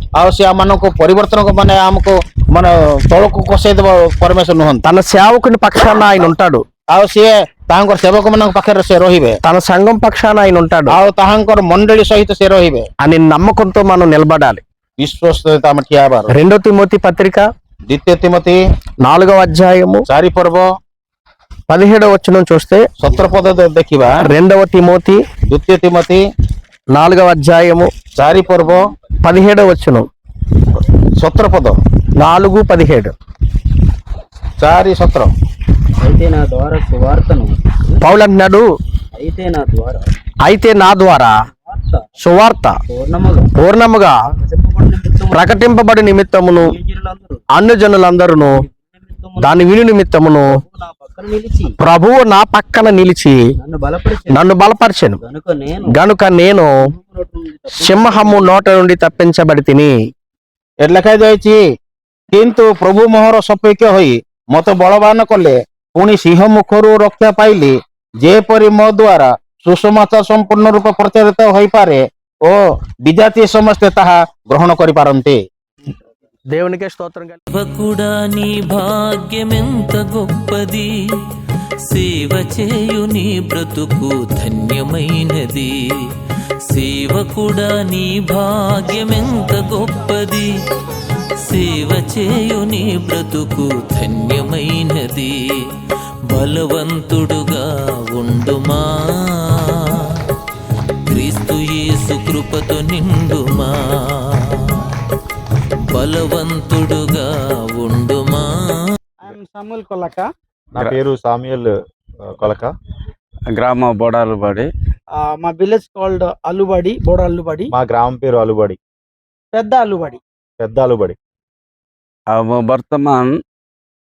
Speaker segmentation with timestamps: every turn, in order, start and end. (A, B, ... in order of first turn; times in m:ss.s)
0:00.2-0:04.8 A
0:04.8-0:06.6 B
0:06.9-0:09.4 A
0:09.4-0:11.0 B
0:10.9-0:12.8 A
0:13.0-0:14.6 B
0:15.0-0:16.3 A
0:16.3-0:17.4 B
0:17.9-0:18.6 A
0:19.0-0:20.0 B
0:20.1-0:20.6 A
0:21.7-0:22.8 B
0:23.0-0:24.2 A
0:24.2-0:25.2 B
0:25.5-0:26.2 A
0:26.9-0:27.9 B
0:28.2-0:28.9 A
0:29.2-0:30.1 B
0:31.2-0:31.8 A
0:32.2-0:33.1 B
0:34.6-0:35.3 A
0:36.2-0:37.6 C
0:38.0-0:38.7 B
0:39.1-0:40.0 C
0:40.4-0:41.3 B
0:42.2-0:42.8 B
0:42.9-0:43.4 C
0:43.6-0:44.2 B
0:44.5-0:45.3 C
0:45.3-0:46.7 B
0:46.8-0:47.4 C
0:47.5-0:48.6 B
0:48.8-0:49.4 C
0:49.4-0:50.6 B
0:50.6-0:51.6 C
0:51.8-0:53.4 B
0:53.6-0:54.3 C
0:54.3-0:55.2 B
0:55.2-0:55.9 C
0:55.8-0:56.7 B
0:56.9-0:58.5 C
0:57.7-0:59.9 B
1:00.8-1:01.6 A
1:02.3-1:15.4 A
1:16.5-1:17.4 B
1:17.5-1:20.9 D
1:21.9-1:25.7 D
1:26.7-1:30.5 D
1:31.4-1:35.3 D
1:36.3-1:40.0 D
1:41.1-1:44.9 D
1:45.9-1:49.0 D
1:49.2-1:50.3 E
1:50.8-1:51.7 F
1:52.2-1:52.7 F
1:53.5-1:54.7 G
1:55.2-1:57.7 E
1:57.7-1:58.8 F
1:59.5-2:00.2 E
2:00.6-2:01.2 F
2:02.3-2:03.3 G